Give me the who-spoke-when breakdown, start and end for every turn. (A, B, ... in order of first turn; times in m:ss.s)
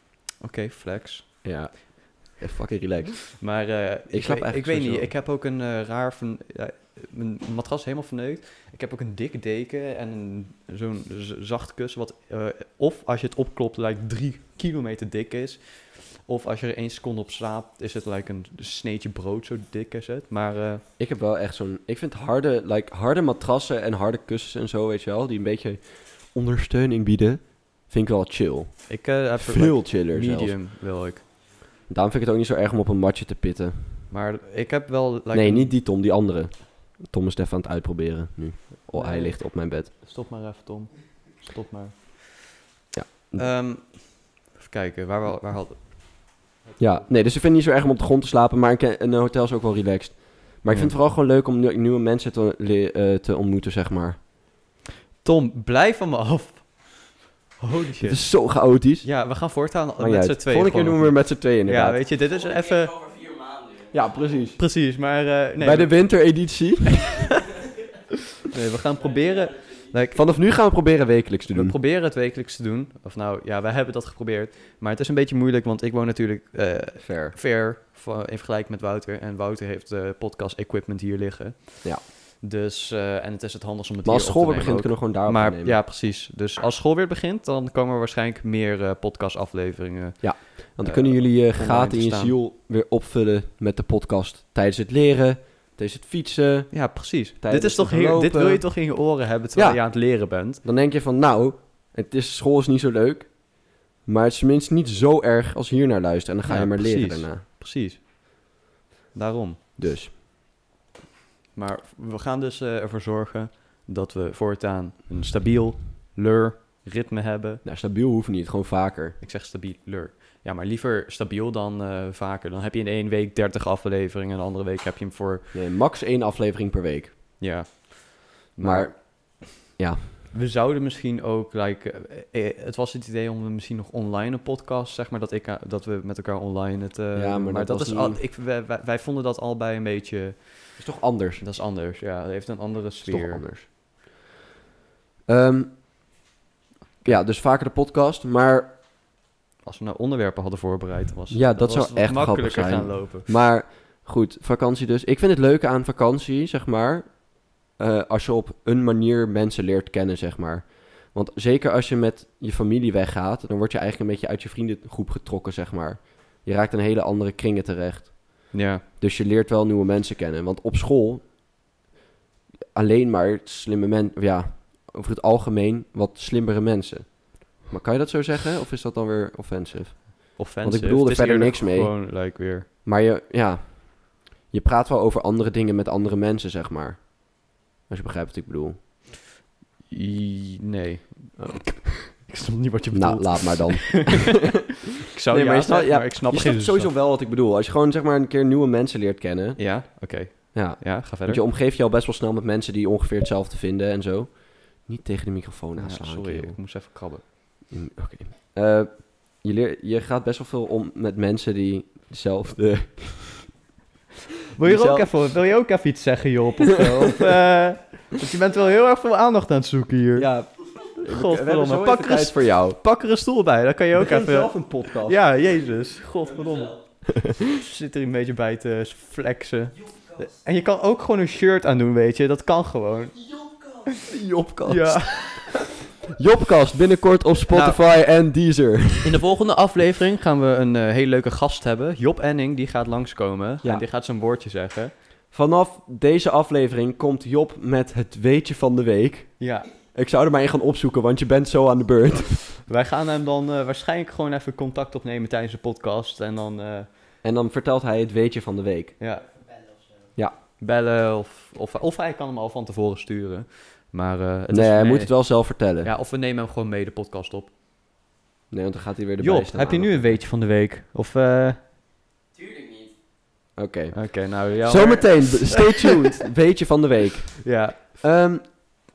0:00.4-0:01.3 A
0:01.4-0:03.4 B
0:03.4-0:20.8 A
0:04.1-0:05.1 B
0:21.0-0:30.6 B
0:28.9-0:31.2 A
0:31.9-0:34.0 B
0:34.1-0:35.8 A
0:35.3-0:39.9 B
0:38.9-0:42.2 A
0:42.9-0:43.5 B
0:43.3-0:47.1 A
0:46.8-0:54.2 B
0:50.7-0:50.9 A
0:55.2-1:02.9 A
0:58.0-0:59.2 B
1:00.0-1:02.0 B
1:02.3-1:04.1 C
1:03.9-1:04.6 B
1:04.6-1:06.3 A
1:05.6-1:07.2 B
1:08.5-1:10.2 A
1:10.1-1:11.8 B
1:11.5-1:32.4 A
1:17.0-1:17.4 B
1:24.0-1:25.8 B
1:30.2-1:38.8 B
1:36.7-1:40.6 A
1:39.5-1:47.4 B
1:46.4-1:48.5 A
1:49.1-1:49.6 A
1:49.8-1:50.1 B
1:51.5-1:57.6 A
1:57.6-1:59.2 B
1:59.2-2:05.5 A
2:05.5-2:07.1 B
2:07.4-2:09.3 A
2:08.6-2:10.1 B
2:10.3-2:23.4 A
2:17.1-2:18.2 B
2:20.8-2:21.4 B
2:23.0-2:23.7 B
2:25.3-2:25.8 B
2:27.0-2:28.8 B
2:29.6-2:33.3 A
2:31.3-2:51.3 B
2:48.5-2:48.8 A
2:52.7-3:02.3 B
3:00.4-3:02.7 A
3:02.8-3:08.8 B
3:09.9-3:14.4 A
3:12.9-3:14.5 B
3:15.0-3:16.9 A
3:15.3-3:19.7 B
3:19.6-3:21.4 A
3:20.5-3:26.6 B
3:25.8-3:27.2 A
3:27.7-3:33.6 B
3:34.6-3:53.3 A
3:34.6-3:35.1 B
3:40.2-3:42.8 B
3:43.9-3:45.2 B
3:54.0-3:59.2 B
3:54.6-3:55.7 A
3:57.5-3:57.8 A
3:59.0-4:05.0 A
4:05.3-4:12.6 B
4:09.4-4:09.7 A
4:12.6-4:16.9 A
4:17.2-4:18.9 B
4:19.0-4:19.3 A
4:20.6-4:27.5 A
4:24.5-4:25.9 B
4:28.5-4:30.2 B
4:29.2-4:31.6 A
4:32.3-4:32.9 C
4:33.6-4:38.5 B
4:33.9-4:36.0 A
4:37.4-4:38.0 A